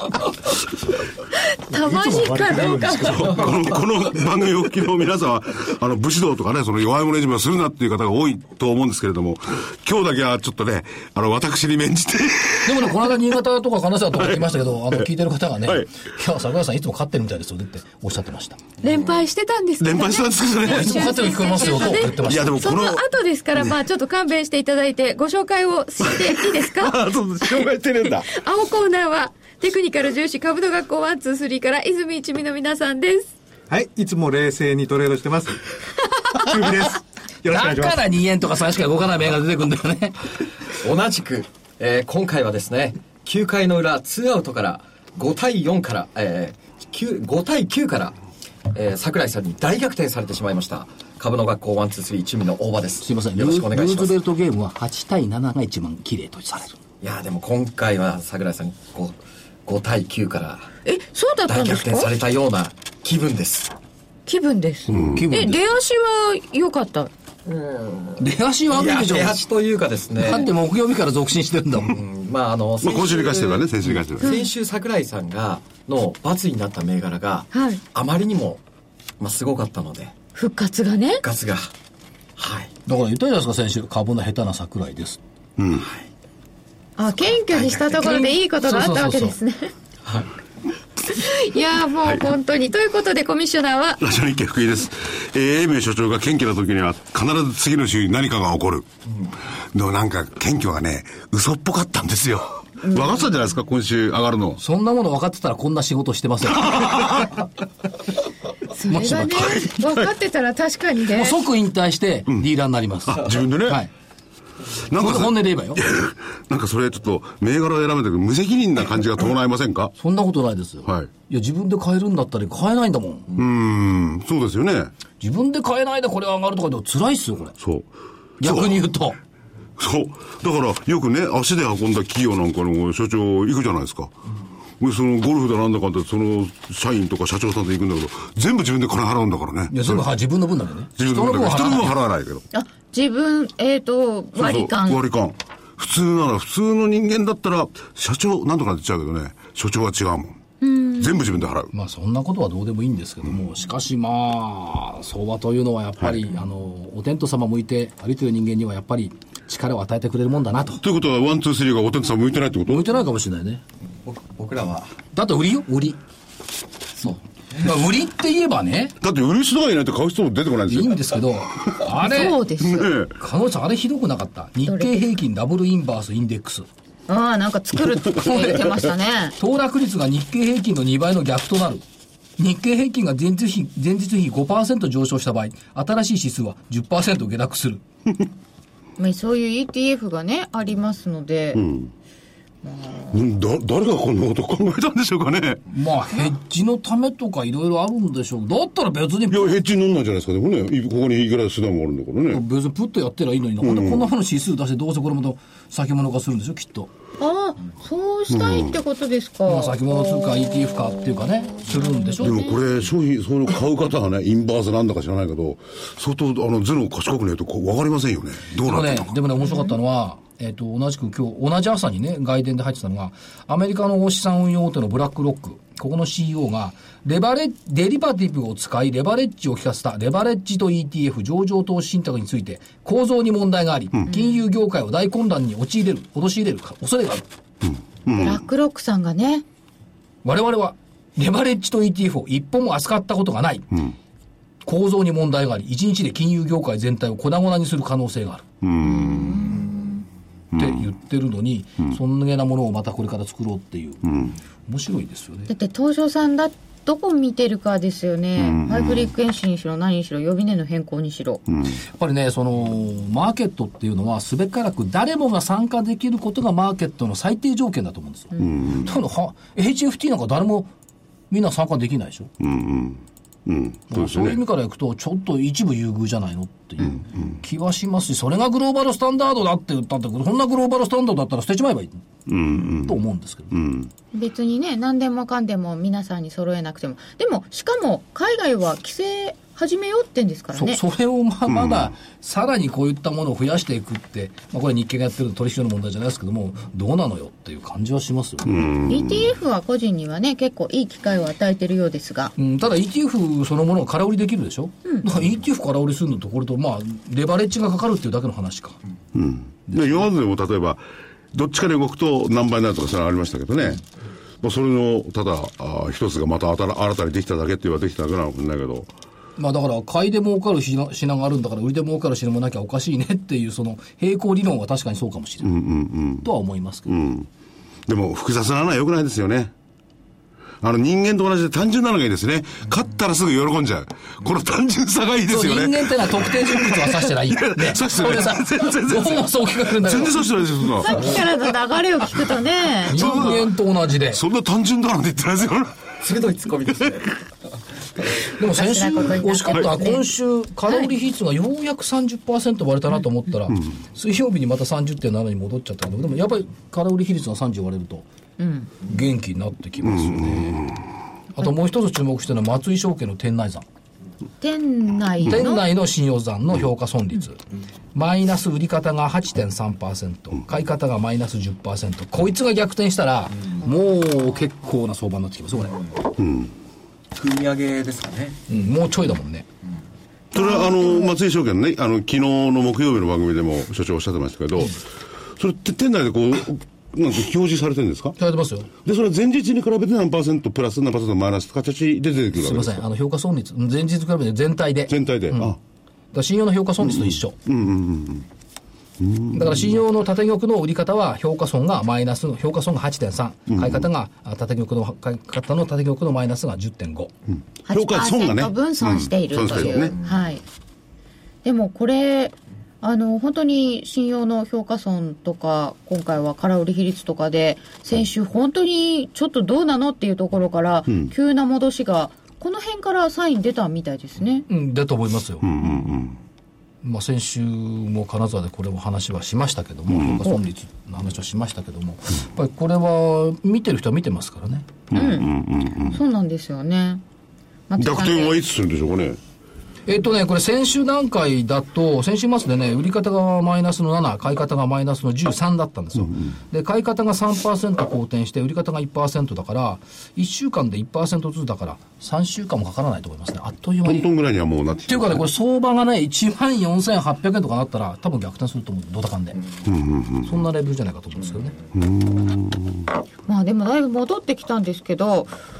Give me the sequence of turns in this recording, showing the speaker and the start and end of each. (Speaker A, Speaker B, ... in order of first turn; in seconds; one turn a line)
Speaker A: 1.7-3.3
Speaker B: 1.7-3.8
Speaker C: 3.0-12.9
Speaker D: 12.6-18.6
Speaker A: 18.8-27.7
Speaker E: 18.8-19.1
Speaker C: 19.8-23.1
Speaker D: 20.6-22.6
Speaker C: 26.0-28.3
Speaker A: 28.3-33.3
Speaker B: 33.7-35.6
Speaker B: 36.4-38.0
Speaker D: 37.5-40.3
Speaker E: 40.8-48.2
Speaker E: 48.7-54.1
Speaker D: 53.0-56.8
Speaker E: 57.0-60.7
Speaker A: 60.8-62.1
Speaker E: 61.5-63.7
Speaker A: 64.3-67.1
Speaker C: 64.9-65.3
Speaker D: 64.9-65.6
Speaker E: 67.5-70.5
Speaker D: 68.2-69.4
Speaker D: 70.2-72.0
Speaker E: 71.9-78.6
Speaker C: 72.8-74.4
Speaker A: 74.2-74.5
Speaker A: 77.5-77.8
Speaker E: 79.2-80.1
Speaker A: 80.3-81.2
Speaker E: 81.2-81.7
Speaker E: 82.4-82.7
Speaker D: 82.8-85.2
Speaker C: 85.6-85.8
Speaker E: 85.8-86.0
Speaker A: 87.0-89.7
Speaker E: 87.1-88.2
Speaker D: 88.0-89.3
Speaker A: 91.1-94.0
Speaker C: 94.0-98.8
Speaker C: 99.7-104.6
Speaker A: 102.8-103.3
Speaker D: 104.6-107.3
Speaker C: 106.7-107.3
Speaker A: 108.7-111.4
Speaker D: 108.9-109.7
Speaker C: 109.7-110.1
Speaker D: 111.1-113.9
Speaker C: 113.1-113.8
Speaker C: 114.9-119.9
Speaker D: 114.9-115.8
Speaker D: 120.0-123.3
Speaker C: 123.3-124.9
Speaker D: 125.2-127.5
Speaker C: 127.6-127.9
Speaker D: 128.4-129.2
Speaker C: 128.4-128.8
Speaker C: 129.8-134.1
Speaker C: 134.8-140.0
Speaker D: 139.7-141.9
Speaker C: 141.0-142.4
Speaker A: 142.5-145.0
Speaker C: 144.3-150.4
Speaker A: 150.6-151.2
Speaker C: 150.9-151.7
Speaker D: 151.7-160.8
Speaker C: 160.8-162.9
Speaker D: 162.7-163.6
Speaker E: 164.0-164.9
Speaker D: 165.1-166.0
Speaker E: 167.0-167.7
Speaker D: 167.6-168.9
Speaker C: 169.0-171.0
Speaker D: 170.7-172.4
Speaker C: 171.6-171.8
Speaker A: 172.0-172.9
Speaker C: 172.6-173.2
Speaker D: 173.1-176.7
Speaker A: 174.6-174.9
Speaker A: 177.1-179.3
Speaker C: 178.2-178.7
Speaker D: 179.4-181.8
Speaker D: 182.4-187.8
Speaker A: 189.0-191.6
Speaker C: 191.5-191.9
Speaker A: 192.6-193.2
Speaker C: 193.1-195.6
Speaker D: 195.7-199.5
Speaker C: 199.3-202.4
Speaker D: 202.3-206.9
Speaker C: 203.6-204.1
Speaker A: 207.2-210.7
Speaker C: 208.3-208.8
Speaker D: 209.4-212.5
Speaker A: 211.7-212.6
Speaker C: 212.2-219.1
Speaker D: 218.6-237.2
Speaker A: 219.4-219.7
Speaker A: 234.1-234.4
Speaker C: 237.6-238.4
Speaker A: 238.2-239.4
Speaker D: 240.2-243.8
Speaker D: 244.6-248.5
Speaker C: 248.6-249.7
Speaker A: 248.8-250.0
Speaker D: 250.5-254.1
Speaker C: 254.1-254.3
Speaker D: 254.7-255.5
Speaker A: 255.5-261.4
Speaker C: 258.4-259.1
Speaker D: 261.9-270.7
Speaker C: 268.4-268.9
Speaker D: 271.3-272.3
Speaker C: 272.4-274.4
Speaker D: 273.9-282.1
Speaker C: 282.3-283.0
Speaker D: 282.7-283.5
Speaker C: 283.5-283.9
Speaker A: 284.1-290.8
Speaker D: 290.5-298.6
Speaker C: 291.5-291.9
Speaker C: 298.4-299.3
Speaker A: 298.9-302.3
Speaker D: 302.4-308.8
Speaker C: 309.1-313.8
Speaker D: 309.7-310.1
Speaker C: 314.4-318.9
Speaker D: 319.4-325.6
Speaker C: 325.4-326.3
Speaker D: 326.2-326.9
Speaker C: 326.9-327.3
Speaker C: 327.9-329.5
Speaker C: 330.6-341.3
Speaker D: 335.3-340.3
Speaker A: 340.8-343.4
Speaker D: 342.9-344.2
Speaker C: 342.9-343.3
Speaker C: 344.1-345.9
Speaker E: 346.0-347.1
Speaker D: 348.3-358.1
Speaker A: 348.5-350.0
Speaker A: 358.4-358.7
Speaker D: 358.8-360.7
Speaker C: 359.9-360.8
Speaker D: 361.3-363.6
Speaker A: 364.4-365.6
Speaker D: 365.2-367.4
Speaker D: 367.9-375.8
Speaker C: 376.2-376.5
Speaker E: 377.1-378.4
Speaker D: 378.5-379.5
Speaker C: 380.3-384.8
Speaker A: 380.4-381.1
Speaker C: 385.4-388.1
Speaker D: 388.2-388.7
Speaker C: 388.8-392.8
Speaker D: 392.3-395.6
Speaker C: 394.9-395.6
Speaker D: 396.1-397.4
Speaker C: 396.9-398.2
Speaker C: 399.0-399.6
Speaker D: 399.3-407.1
Speaker C: 403.5-403.8
Speaker A: 407.7-410.4
Speaker C: 407.7-409.9
Speaker E: 409.8-410.2
Speaker A: 411.4-424.4
Speaker C: 420.9-421.1
Speaker D: 424.5-425.5
Speaker C: 425.4-426.2
Speaker D: 426.8-434.8
Speaker C: 429.9-430.3
Speaker C: 434.9-436.0
Speaker A: 434.9-437.0
Speaker A: 437.7-438.4
Speaker C: 437.8-439.2
Speaker D: 439.9-454.1
Speaker C: 453.8-455.2
Speaker D: 454.8-459.4
Speaker C: 459.6-460.3
Speaker D: 460.2-461.5
Speaker C: 461.7-462.9
Speaker A: 463.3-465.3